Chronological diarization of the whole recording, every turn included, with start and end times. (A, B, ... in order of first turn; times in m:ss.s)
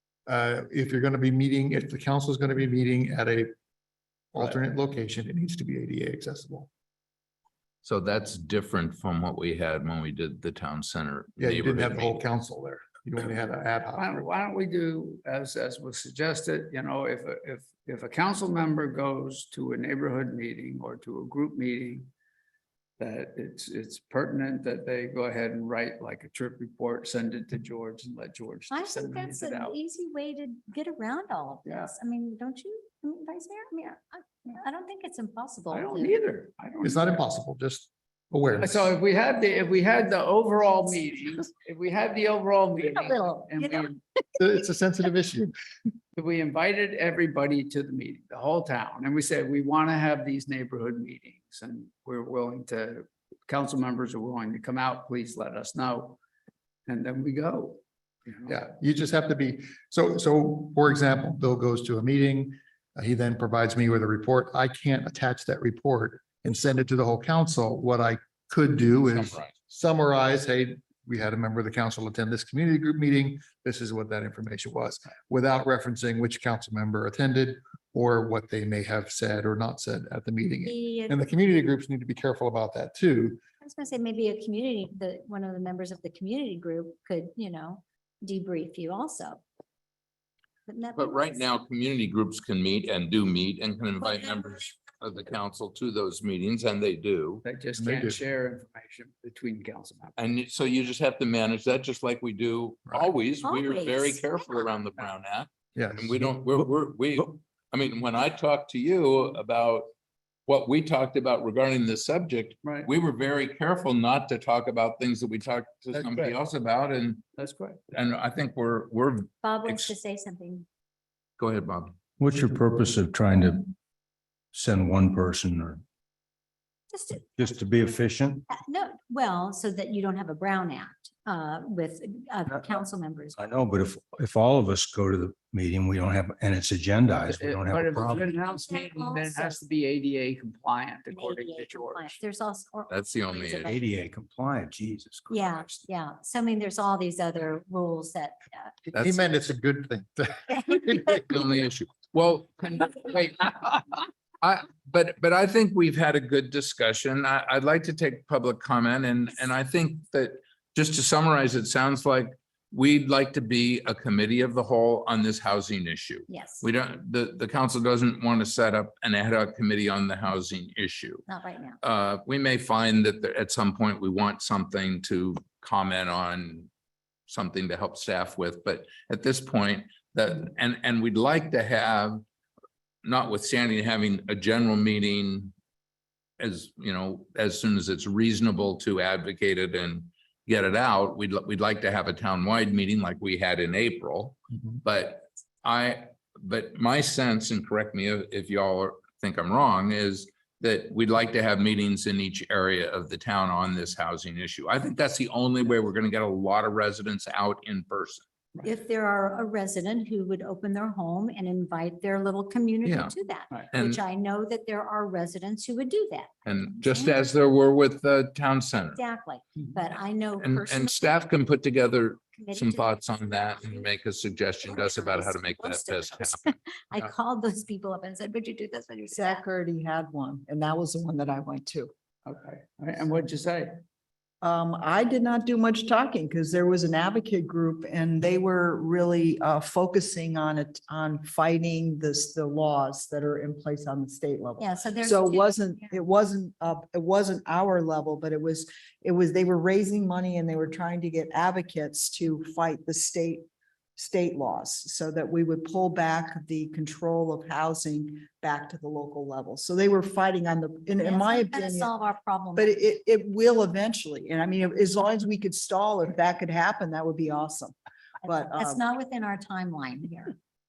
0:00.2-0:03.5 A
0:04.3-0:06.7 A
0:07.8-0:12.2 B
0:11.4-0:14.2 A
0:13.9-0:22.1 C
0:23.0-0:29.8 C
0:28.7-0:36.2 D
0:31.6-0:31.9 C
0:35.7-0:37.2 C
0:36.8-0:38.9 A
0:38.6-0:44.0 C
0:42.8-0:43.9 D
0:44.4-0:45.5 A
0:46.1-0:56.2 C
0:56.9-0:58.5 C
0:58.4-1:23.4 A
1:09.0-1:09.6 B
1:20.6-1:21.1 D
1:23.6-1:29.4 D
1:30.7-1:31.5 D
1:30.9-1:37.4 B
1:37.4-1:40.1 C
1:37.8-1:38.2 A
1:40.2-1:49.9 B
1:43.4-1:44.6 D
1:45.7-1:46.3 A
1:50.5-1:57.2 B
1:52.6-1:52.9 C
1:55.9-1:56.3 C
1:57.4-1:57.8 C
1:57.9-1:59.9 B
1:59.4-2:00.6 D
2:01.4-2:02.0 B
2:02.2-2:03.7 E
2:04.5-2:05.8 E
2:06.9-2:07.5 D
2:07.4-2:08.4 E
2:08.5-2:13.4 D
2:12.5-2:18.3 E
2:17.3-2:22.2 C
2:18.2-2:19.6 D
2:21.1-2:23.8 D
2:22.9-2:23.8 B
2:23.6-2:25.8 E
2:25.3-2:28.7 D
2:28.9-2:31.2 A
2:28.9-2:29.2 B
2:31.2-2:33.8 B
2:34.4-2:51.2 B
2:46.3-2:46.6 D
2:51.3-2:51.8 D
2:51.8-2:56.7 B
2:57.3-3:02.2 B
3:03.0-3:05.5 B
3:06.4-3:28.2 B
3:28.6-3:37.2 D
3:32.8-3:33.1 B
3:33.7-3:34.0 B
3:36.4-3:39.0 B
3:38.9-3:41.2 D
3:40.4-3:46.4 B
3:42.3-3:43.9 D
3:44.6-3:49.4 D
3:49.1-3:51.9 F
3:52.2-3:53.8 C
3:54.4-4:13.4 F
4:04.6-4:06.0 D
4:14.0-4:21.9 F
4:21.0-4:22.7 D
4:22.6-4:27.7 F
4:28.2-4:28.8 F
4:28.6-4:30.3 D